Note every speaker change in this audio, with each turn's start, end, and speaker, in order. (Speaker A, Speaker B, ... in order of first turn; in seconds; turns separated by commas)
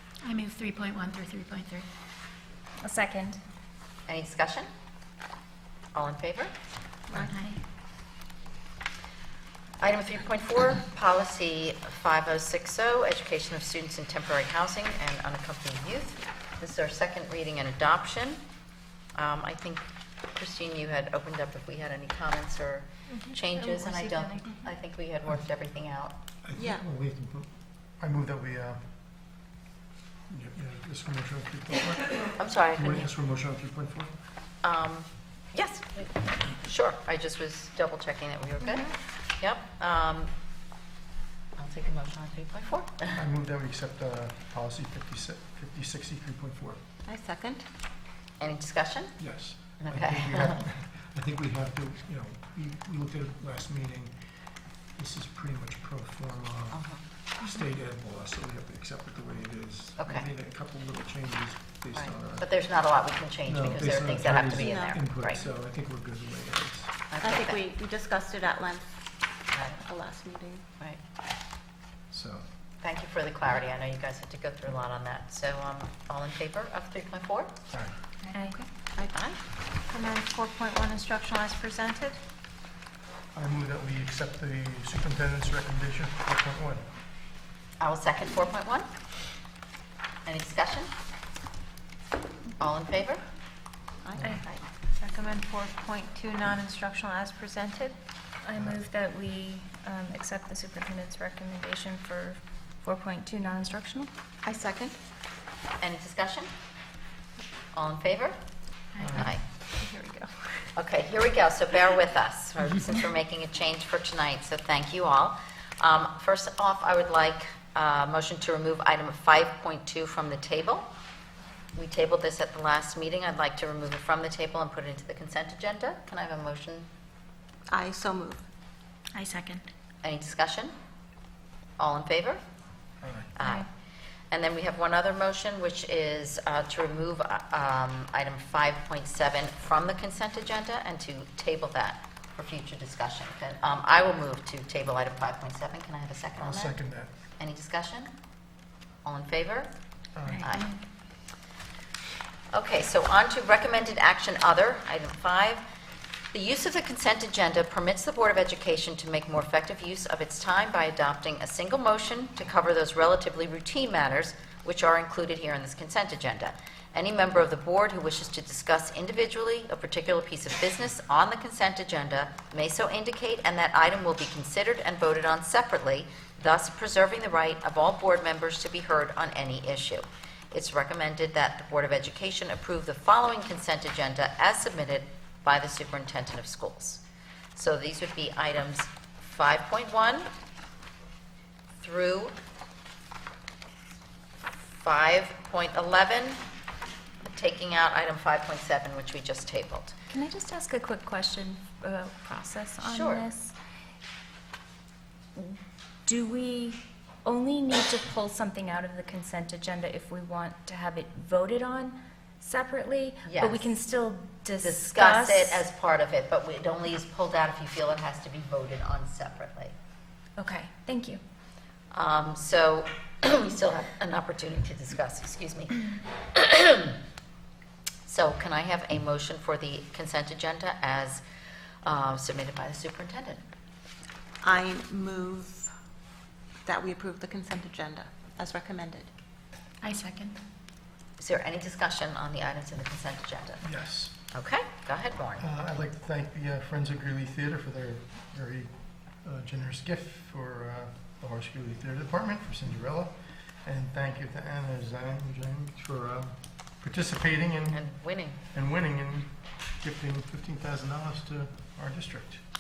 Speaker A: 0.2-1.9, Speaker B: 2.8-3.4, Speaker C: 4.1-4.7, Speaker C: 5.9-6.5, Speaker A: 7.1-7.6, Speaker C: 9.8-18.4, Speaker C: 19.1-26.1, Speaker D: 26.4-28.9, Speaker E: 26.6-26.8, Speaker D: 30.3-34.1, Speaker C: 32.4-33.1, Speaker C: 34.6-40.3, Speaker C: 41.6-43.2, Speaker D: 43.1-46.8, Speaker E: 47.1-47.6, Speaker C: 48.4-49.1, Speaker D: 49.2-54.2, Speaker C: 49.8-50.6, Speaker D: 55.0-62.5, Speaker C: 56.7-57.0, Speaker C: 60.0-60.3, Speaker C: 61.9-65.4, Speaker D: 63.5-66.9, Speaker E: 64.5-65.0, Speaker C: 67.1-67.6, Speaker E: 67.2-68.9, Speaker C: 69.5-69.8, Speaker E: 69.8-70.6, Speaker D: 72.1-72.5, Speaker C: 72.8-77.5, Speaker B: 78.3-78.7, Speaker C: 79.1-79.4, Speaker F: 79.9-82.2, Speaker D: 83.3-86.9, Speaker C: 87.8-88.9, Speaker C: 90.2-90.9, Speaker C: 92.6-93.2, Speaker E: 94.0-97.9, Speaker D: 94.2-94.5, Speaker F: 95.0-95.5, Speaker F: 96.6-97.9, Speaker B: 98.4-104.1, Speaker E: 104.4-105.0, Speaker C: 105.8-106.5, Speaker C: 107.7-108.4, Speaker D: 109.0-109.3, Speaker C: 109.0-109.4, Speaker C: 110.8-120.9, Speaker C: 121.8-126.9, Speaker E: 127.7-128.4, Speaker A: 129.2-129.7, Speaker C: 130.0-130.8, Speaker C: 131.8-132.4, Speaker D: 133.0-133.3, Speaker C: 133.4-133.7, Speaker C: 134.3-146.8, Speaker D: 146.4-147.1, Speaker C: 147.4-148.1, Speaker C: 149.1-149.7, Speaker D: 150.2-150.5, Speaker C: 150.4-150.8, Speaker C: 152.5-155.6, Speaker C: 156.3-187.0, Speaker C: 187.6-190.3, Speaker C: 191.8-192.3, Speaker C: 194.8-196.4, Speaker C: 197.2-199.9, Speaker B: 200.1-203.5, Speaker C: 202.8-203.3, Speaker B: 206.1-215.7, Speaker C: 213.2-213.7, Speaker C: 214.6-219.7, Speaker B: 220.4-221.2, Speaker C: 221.9-227.0, Speaker C: 228.1-231.2, Speaker C: 231.8-233.4, Speaker E: 234.4-235.7, Speaker E: 236.7-239.1, Speaker A: 239.8-240.4, Speaker C: 241.2-243.7, Speaker D: 243.6-244.2, Speaker C: 244.2-245.4, Speaker D: 245.4-257.9, Speaker C: 257.7-258.4, Speaker D: 258.5-262.4